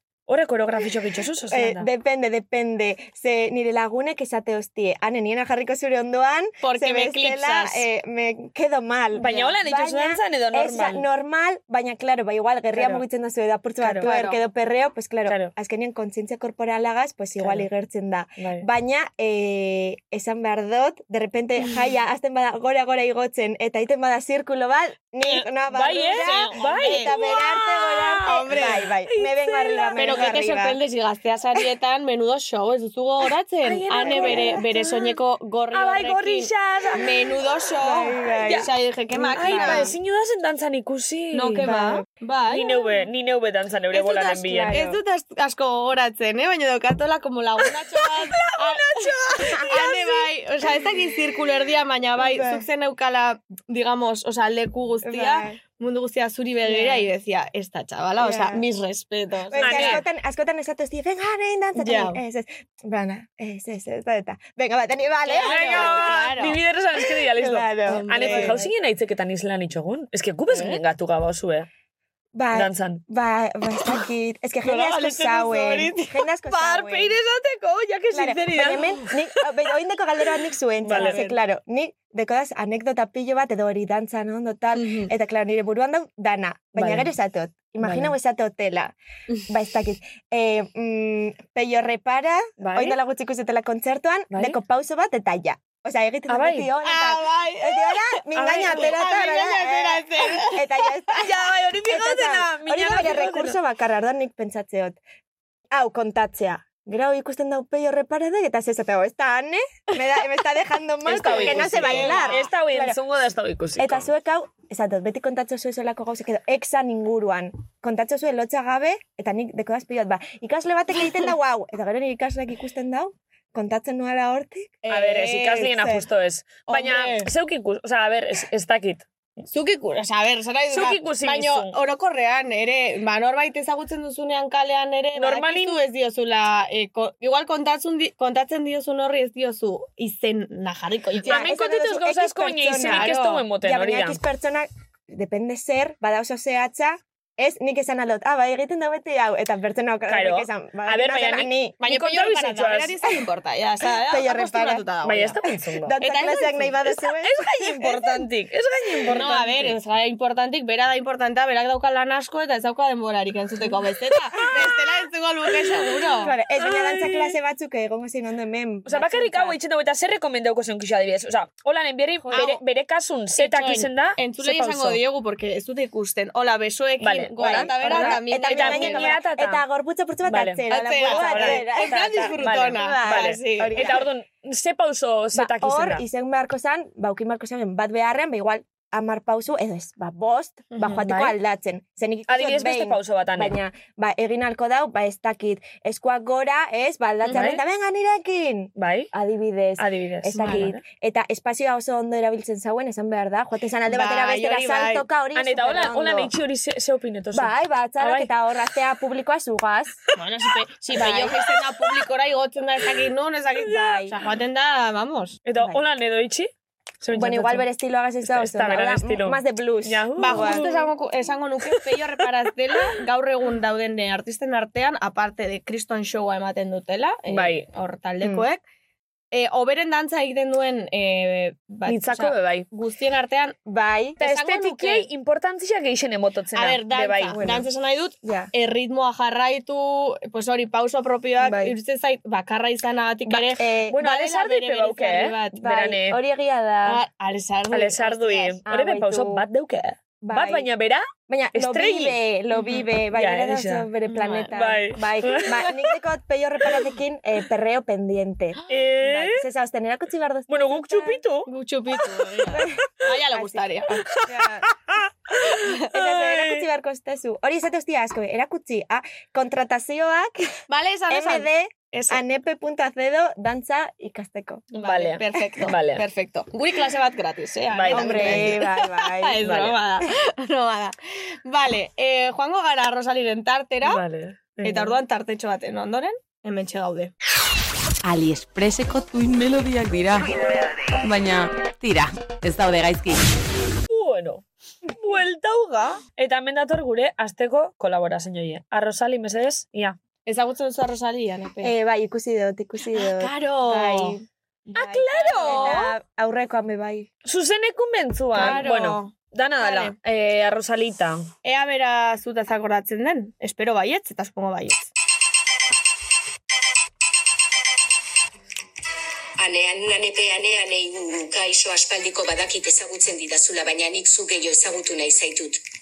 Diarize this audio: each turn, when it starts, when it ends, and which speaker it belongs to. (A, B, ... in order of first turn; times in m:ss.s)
0:00.3-0:01.9 A
0:01.5-0:30.8 B
0:06.6-0:07.8 C
0:09.1-0:11.0 A
0:09.2-0:09.5 C
0:12.7-0:13.0 A
0:13.8-0:14.1 A
0:14.0-0:14.4 C
0:15.3-0:15.5 A
0:17.4-0:17.7 A
0:18.4-0:18.6 A
0:25.7-0:30.3 A
0:26.2-0:27.1 C
0:28.3-0:28.8 C
0:30.0-0:39.9 C
0:33.6-0:35.1 A
0:34.0-0:34.5 B
0:35.7-0:37.1 A
0:37.8-0:39.9 B
0:39.4-0:41.6 A
0:41.3-0:43.0 C
0:41.6-0:42.0 B
0:42.5-0:45.0 A
0:43.9-1:00.0 C
0:48.1-0:49.8 A
0:49.5-0:50.2 B
0:52.2-0:52.6 B
0:55.0-0:55.6 B
0:56.7-0:57.0 B
0:58.2-0:58.6 B
0:59.5-1:06.1 B
0:59.6-1:00.0 A
1:01.8-1:02.2 C
1:05.2-1:06.6 C
1:05.4-1:11.7 A
1:07.4-1:08.6 B
1:07.8-1:08.7 C
1:10.5-1:10.8 C
1:12.3-1:17.2 B
1:12.5-1:13.0 A
1:14.6-1:19.1 C
1:18.1-1:28.9 B
1:20.8-1:21.2 A
1:20.9-1:21.4 C
1:24.7-1:25.1 C
1:26.7-1:27.1 A
1:27.8-1:28.1 A
1:29.5-1:45.0 B
1:32.6-1:33.0 A
1:34.3-1:34.6 A
1:36.3-1:36.7 A
1:36.8-1:41.2 C
1:38.3-1:39.0 A
1:41.3-1:43.6 A
1:45.7-1:53.0 B
1:51.0-1:54.1 A
1:51.1-1:52.4 C
1:53.8-2:04.8 B
2:04.8-2:05.9 C
2:04.9-2:09.0 A
2:06.7-2:07.3 C
2:09.5-2:21.5 C
2:10.7-2:11.8 A
2:15.1-2:15.8 A
2:21.2-2:24.2 A
2:21.2-2:31.8 B
2:22.8-2:23.4 C
2:30.1-2:33.0 A
2:31.8-2:35.4 C
2:34.0-2:34.9 B
2:35.0-2:36.0 A
2:35.8-2:38.3 B
2:36.0-2:36.8 C
2:36.8-2:39.8 A
2:39.1-2:46.3 C
2:46.2-2:49.6 B
2:46.6-2:47.4 A
2:48.8-2:55.0 A
2:52.3-2:52.6 C
2:52.3-2:52.6 B
2:53.4-2:59.2 C
2:57.0-2:59.6 A
2:57.4-3:04.1 B
3:00.2-3:06.0 A
3:00.7-3:04.0 C
3:05.3-3:26.3 B
3:10.7-3:11.0 C
3:11.0-3:11.4 A
3:12.3-3:13.6 A
3:17.2-3:17.5 C
3:17.3-3:17.6 A
3:18.8-3:19.1 A
3:19.8-3:20.8 A
3:20.4-3:20.7 C
3:23.8-3:25.0 C
3:25.3-3:28.3 A
3:27.3-3:30.0 B
3:30.1-3:35.4 C
3:30.9-3:31.4 B
3:33.6-3:34.1 A
3:33.8-3:34.1 B
3:35.4-3:36.5 A
3:35.6-3:35.8 B
3:37.0-3:37.7 A
3:37.1-3:40.7 B
3:38.2-3:40.9 A
3:40.2-3:48.6 C
3:47.3-3:47.6 A
3:48.2-3:48.5 B
3:49.3-3:53.6 C
3:51.8-3:52.7 A
3:53.6-3:54.2 B
3:54.2-3:55.1 C
3:54.2-3:57.4 A
3:56.5-4:05.6 C
3:57.3-3:57.7 B
3:58.2-3:58.5 B
4:01.4-4:01.7 B
4:03.2-4:04.0 B
4:03.9-4:06.2 A
4:05.5-4:07.0 B
4:06.8-4:08.6 C
4:07.7-4:12.2 A
4:08.6-4:09.4 B
4:10.2-4:10.7 B
4:11.3-4:21.2 B
4:12.5-4:12.8 C
4:13.1-4:13.9 A
4:14.1-4:14.6 C
4:14.5-4:15.8 A
4:18.7-4:19.4 A
4:20.5-4:21.5 A
4:21.5-4:24.6 C
4:22.0-4:22.5 A
4:22.5-4:24.7 B
4:24.9-4:26.6 A
4:25.8-4:30.5 B
4:30.7-4:32.2 C
4:31.1-4:34.7 B
4:34.7-4:44.0 C
4:34.8-4:36.0 A
4:37.7-4:38.6 A
4:37.9-4:39.4 B
4:39.4-4:39.8 A
4:43.8-4:45.0 A
4:44.6-4:47.1 C
4:48.0-4:53.2 D
4:53.9-5:00.0 A
5:00.2-5:01.7 C
5:01.6-5:07.1 B
5:02.9-5:04.2 C
5:04.8-5:05.9 A
5:05.1-5:05.9 C
5:07.2-5:11.3 A
5:08.3-5:09.9 C
5:11.4-5:14.9 C
5:19.4-5:25.6 E